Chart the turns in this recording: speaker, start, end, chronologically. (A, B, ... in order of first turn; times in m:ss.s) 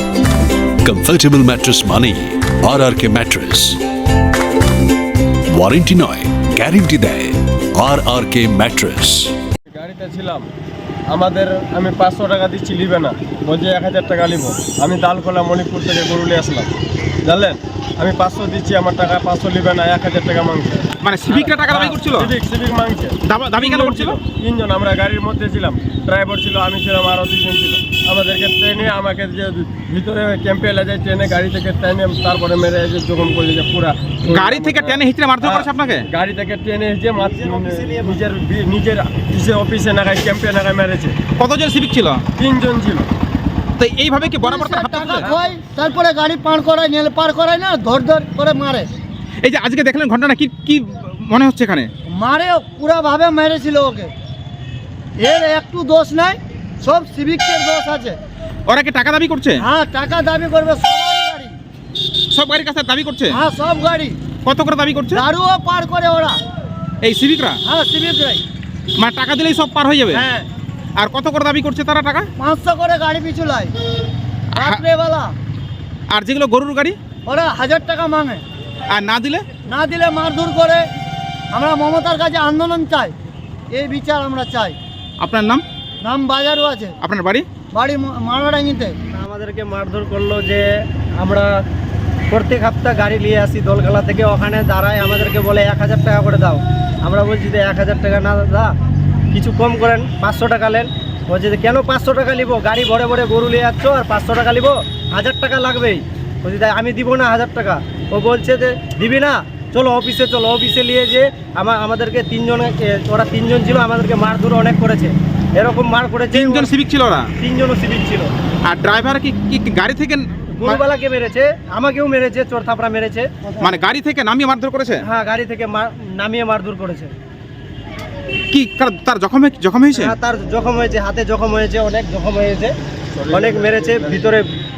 0:00.8-0:03.8 A
0:05.5-0:09.3 A
0:09.7-0:10.5 B
0:11.1-0:41.2 B
0:21.0-0:22.3 C
0:23.2-0:24.2 C
0:34.2-0:36.1 C
0:37.4-0:38.1 D
0:41.4-0:42.2 C
0:42.4-0:43.1 B
0:43.8-0:45.4 C
0:44.4-0:48.9 E
0:49.4-0:51.9 C
0:52.1-0:54.1 E
0:55.2-0:58.2 E
0:58.7-0:59.6 C
0:59.6-1:01.5 E
1:02.3-1:03.4 C
1:03.3-1:04.2 E
1:04.4-1:05.2 C
1:05.1-1:06.4 E
1:07.0-1:07.6 C
1:07.6-1:08.4 E
1:09.0-1:10.2 C
1:10.1-1:10.4 E
1:11.0-1:12.3 C
1:12.4-1:13.7 E
1:14.5-1:14.8 C
1:14.6-1:15.3 E
1:16.1-1:17.0 C
1:17.2-1:18.4 E
1:18.9-1:19.4 C
1:19.7-1:20.8 E
1:21.5-1:23.1 E
1:23.7-1:24.8 E
1:25.2-1:25.6 C
1:26.0-1:27.0 E
1:27.0-1:27.5 C
1:27.7-1:28.9 E
1:29.1-1:30.6 D
1:31.2-1:31.5 D
1:32.3-1:38.7 D
1:39.3-1:56.7 D
1:56.3-1:57.3 C
1:57.4-1:58.3 D
1:58.6-2:00.8 C
2:00.6-2:03.3 D
2:03.6-2:05.0 C
2:05.1-2:07.1 D
2:08.5-2:10.1 C
2:09.9-2:12.7 D
2:13.1-2:14.3 B
2:13.3-2:14.4 D